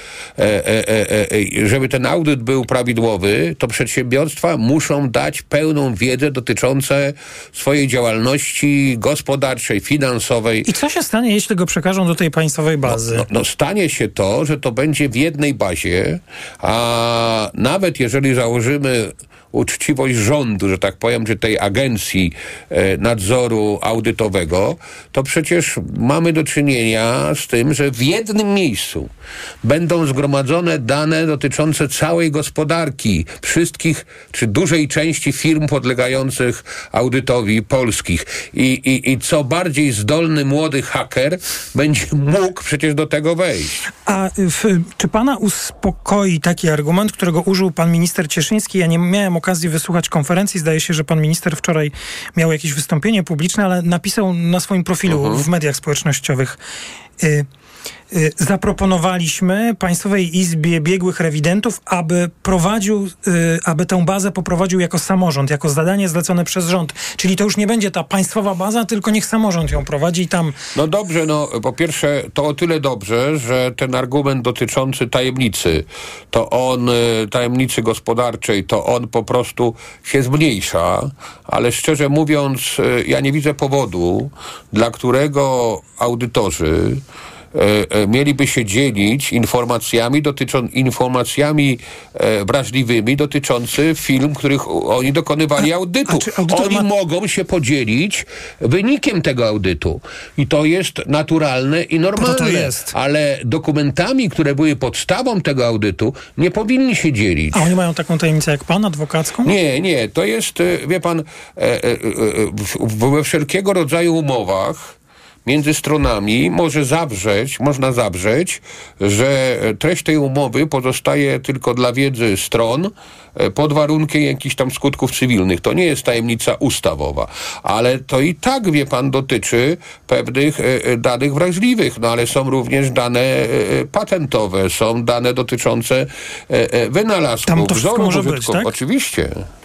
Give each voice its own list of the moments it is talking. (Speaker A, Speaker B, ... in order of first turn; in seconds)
Speaker A: 0.4-10.7, 12.9-29.1, 29.6-43.8, 55.1-55.5, 70.8-87.0, 87.5-107.7, 109.4-139.4
Speaker B: 10.7-13.2, 44.1-56.6, 57.2-57.5, 58.1-70.6, 95.6-96.9, 102.2-102.9, 107.5-109.5, 137.5-138.7